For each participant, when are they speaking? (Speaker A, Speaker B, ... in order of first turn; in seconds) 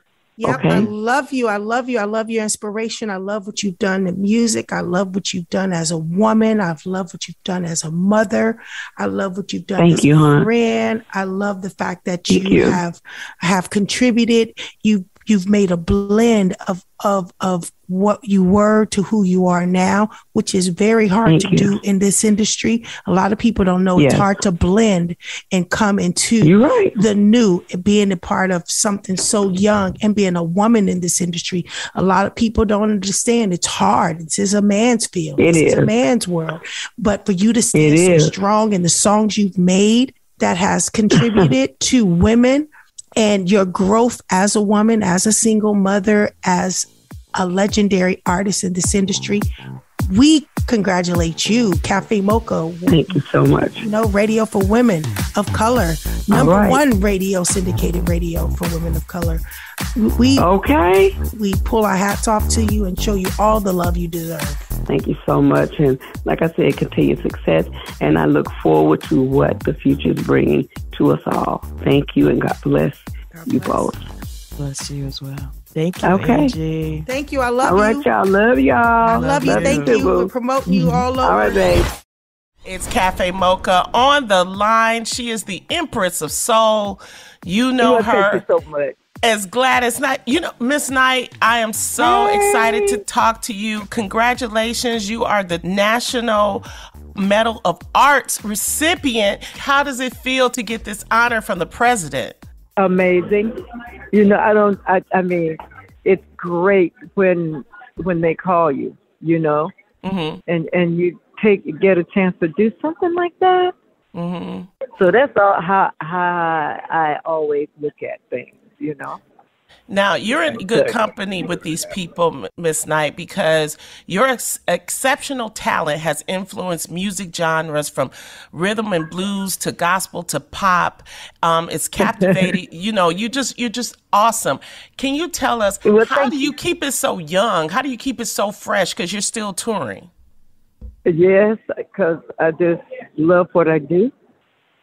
Speaker A: 0.4-49.5, 50.1-53.2, 53.8-59.4, 60.0-60.5, 61.3-64.6, 73.3-73.9, 77.0-78.1, 79.0-81.8
Speaker B: 0.4-0.9, 9.8-10.5, 12.3-12.8, 21.2-21.8, 23.9-24.3, 26.4-27.0, 35.4-35.9, 37.8-38.3, 41.2-41.5, 52.9-53.9, 56.3-56.8, 60.4-61.1, 64.9-74.0, 76.0-76.5, 77.6-80.3, 81.2-81.8
Speaker C: 74.6-77.0, 79.1-79.9
Speaker D: 82.6-88.4, 89.2-96.6, 97.2-102.4, 110.0-110.4, 114.1-114.7, 119.9-140.1
Speaker E: 87.8-89.0, 92.0-93.0, 102.8-103.5, 104.1-109.7, 110.5-113.7, 115.0-119.2, 120.3-121.0, 132.0-132.6, 135.8-136.6, 141.1-144.1